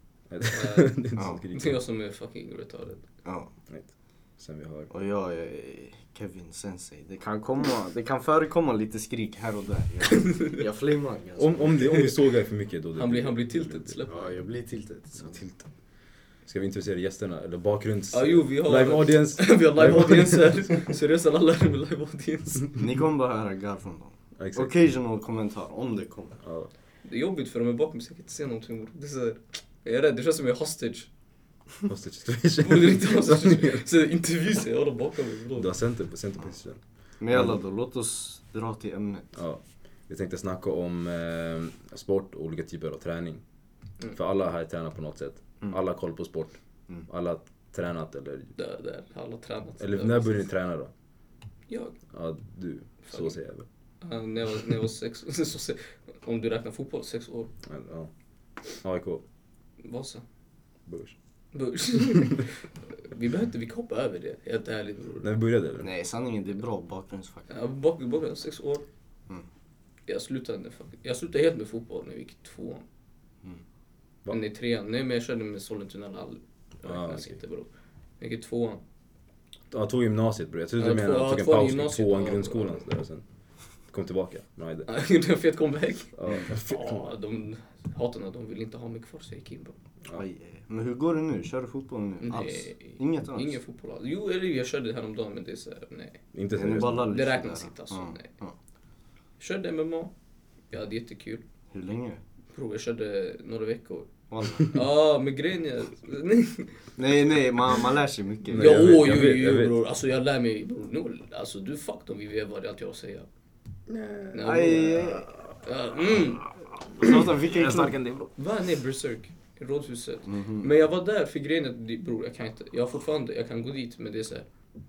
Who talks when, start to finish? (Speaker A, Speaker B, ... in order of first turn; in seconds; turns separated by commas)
Speaker A: 0.3-1.8, Speaker B: 0.4-1.0, Speaker C: 1.2-1.4, Speaker B: 1.5-3.1, Speaker A: 3.7-4.9, Speaker C: 4.9-11.8, Speaker B: 10.1-10.6, Speaker A: 11.3-14.0, Speaker B: 11.8-12.2, Speaker B: 12.9-14.4, Speaker C: 14.1-15.5, Speaker A: 15.2-15.6, Speaker A: 16.4-20.6, Speaker B: 18.1-22.8, Speaker C: 22.8-26.4, Speaker A: 24.4-24.7, Speaker A: 26.4-26.7, Speaker B: 27.0-31.1, Speaker A: 31.9-33.8, Speaker B: 32.6-35.7, Speaker A: 35.6-37.6, Speaker C: 37.2-39.3, Speaker A: 39.3-43.4, Speaker A: 44.1-48.5, Speaker B: 48.6-50.4, Speaker A: 49.8-50.9, Speaker B: 51.7-52.0, Speaker A: 52.1-53.7, Speaker B: 53.0-53.4, Speaker B: 54.0-57.5, Speaker A: 57.6-58.1, Speaker A: 58.8-59.2, Speaker B: 59.8-60.2, Speaker A: 60.9-61.1, Speaker B: 61.5-65.3, Speaker A: 65.2-65.9, Speaker C: 65.8-67.4, Speaker B: 67.5-68.8, Speaker B: 70.1-72.8, Speaker B: 74.3-77.7, Speaker A: 76.8-77.4, Speaker B: 78.2-78.8, Speaker A: 79.7-83.2, Speaker B: 80.8-82.8, Speaker A: 83.9-84.9, Speaker B: 84.8-89.8, Speaker A: 86.1-87.1, Speaker C: 90.1-93.6, Speaker B: 92.2-96.2, Speaker A: 96.3-97.1, Speaker C: 96.6-98.5, Speaker B: 97.1-98.3, Speaker B: 99.4-100.1, Speaker B: 100.7-101.4, Speaker C: 101.7-102.2, Speaker B: 102.5-104.1, Speaker C: 104.3-104.7, Speaker B: 104.6-106.8, Speaker C: 107.0-108.9, Speaker A: 108.5-109.8, Speaker B: 108.5-113.3, Speaker A: 113.9-114.7, Speaker B: 114.3-116.5, Speaker C: 114.4-115.3, Speaker A: 116.1-118.3, Speaker C: 117.0-117.9, Speaker B: 118.4-124.5, Speaker C: 120.3-120.7